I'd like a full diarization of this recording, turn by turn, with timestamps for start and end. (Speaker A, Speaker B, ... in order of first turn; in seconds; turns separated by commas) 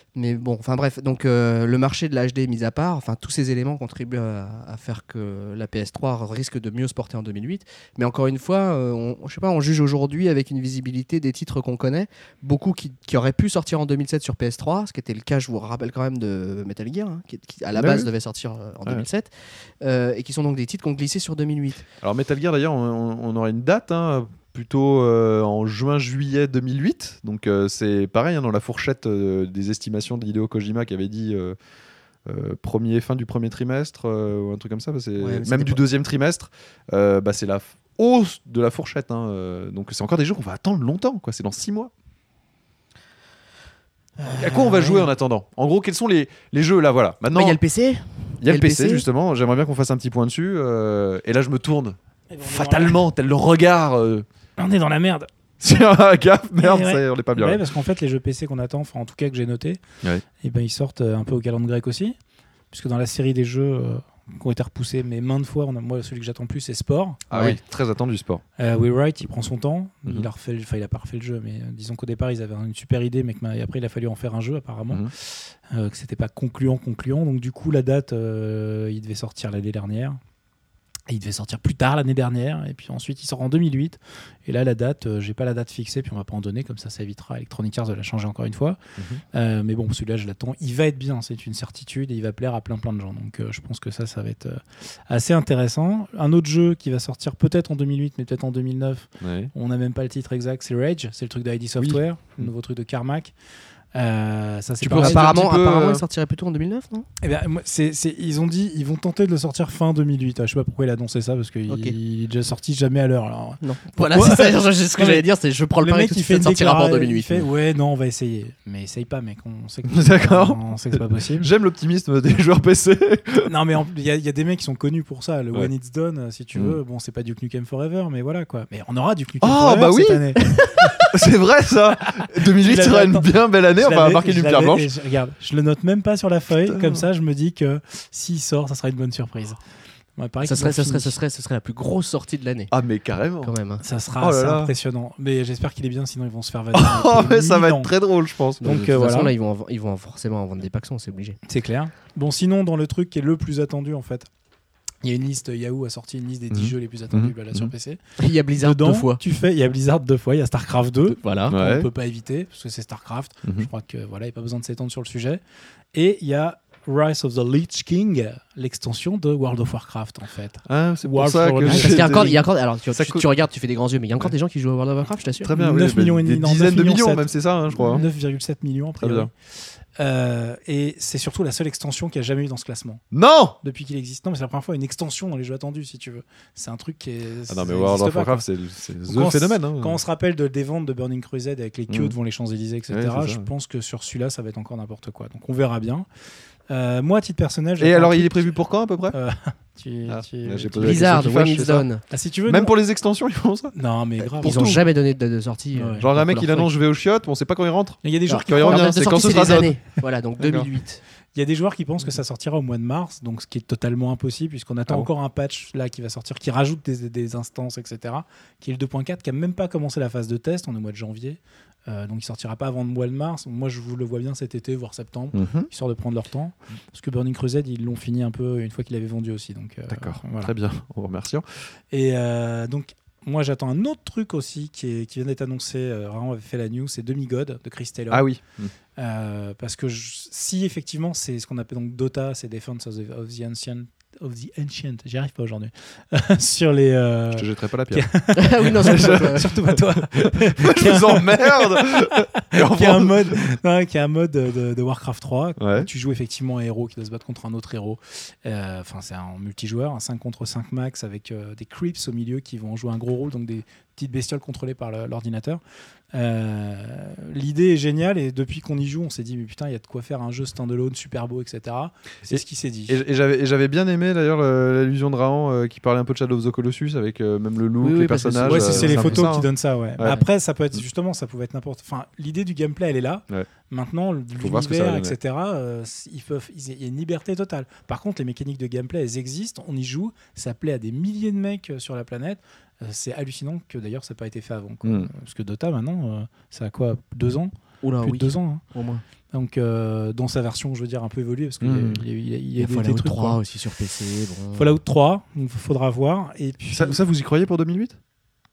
Speaker A: 0.1-21.9, Speaker B: 17.7-18.1, Speaker B: 22.0-31.6, Speaker B: 32.2-41.9, Speaker A: 35.2-35.8, Speaker A: 44.2-45.0, Speaker B: 44.4-47.6, Speaker A: 47.3-49.0, Speaker B: 48.4-54.2, Speaker C: 52.3-53.0, Speaker C: 54.6-55.3, Speaker B: 55.6-57.6, Speaker C: 56.6-59.8, Speaker C: 60.4-62.1, Speaker C: 62.7-67.5, Speaker B: 67.3-68.4, Speaker C: 68.6-80.2, Speaker C: 81.1-88.8, Speaker C: 89.3-103.3, Speaker B: 99.2-99.5, Speaker B: 101.8-102.5, Speaker C: 103.9-105.3, Speaker B: 104.8-106.0, Speaker A: 104.8-107.1, Speaker C: 107.2-115.3, Speaker A: 111.7-112.0, Speaker A: 113.6-117.4, Speaker C: 115.8-121.5, Speaker B: 119.9-123.5, Speaker C: 123.4-131.1, Speaker B: 126.5-126.8, Speaker B: 129.4-130.4, Speaker A: 130.4-131.0, Speaker B: 131.1-134.9, Speaker C: 132.4-139.6, Speaker B: 136.7-137.1, Speaker C: 140.2-141.2, Speaker A: 140.4-142.7, Speaker B: 142.7-143.5, Speaker A: 143.4-143.8, Speaker C: 143.8-147.9, Speaker B: 144.2-144.7, Speaker B: 146.7-148.7, Speaker A: 148.6-151.4, Speaker C: 148.6-149.3, Speaker C: 151.4-154.3, Speaker C: 155.0-158.0, Speaker B: 156.5-157.7, Speaker A: 158.2-159.2, Speaker C: 158.6-165.4, Speaker A: 161.2-161.5, Speaker B: 161.5-161.9, Speaker C: 165.9-172.4, Speaker B: 170.7-173.2, Speaker A: 171.7-175.5, Speaker B: 175.4-178.1, Speaker C: 175.6-179.3, Speaker B: 179.0-179.3, Speaker C: 180.0-183.0, Speaker B: 183.1-183.6, Speaker C: 183.6-188.4, Speaker B: 187.5-190.0, Speaker C: 189.1-196.1, Speaker B: 191.9-192.1, Speaker B: 192.9-193.5, Speaker C: 196.7-198.6, Speaker B: 197.8-199.2, Speaker C: 199.1-201.3, Speaker B: 200.1-201.9, Speaker A: 200.8-202.0, Speaker C: 202.1-202.7, Speaker B: 202.5-203.7, Speaker C: 203.7-204.8, Speaker A: 204.4-206.7, Speaker C: 205.7-206.1, Speaker B: 206.0-209.8, Speaker C: 208.0-209.7, Speaker A: 208.3-211.0, Speaker B: 210.4-210.7, Speaker C: 211.3-230.5, Speaker B: 225.3-225.7, Speaker B: 229.9-231.4, Speaker C: 231.9-238.3, Speaker B: 238.1-238.7, Speaker C: 239.0-265.6, Speaker B: 247.3-248.1, Speaker A: 248.3-249.5, Speaker B: 248.6-253.4, Speaker B: 255.6-255.9, Speaker C: 266.1-273.0, Speaker B: 272.2-280.2, Speaker A: 277.8-279.3, Speaker C: 278.4-298.6, Speaker B: 284.4-285.1, Speaker B: 294.8-295.1, Speaker A: 297.8-299.0, Speaker C: 299.3-303.4, Speaker B: 301.6-302.0, Speaker A: 302.6-304.7, Speaker C: 304.5-307.0, Speaker B: 306.7-308.0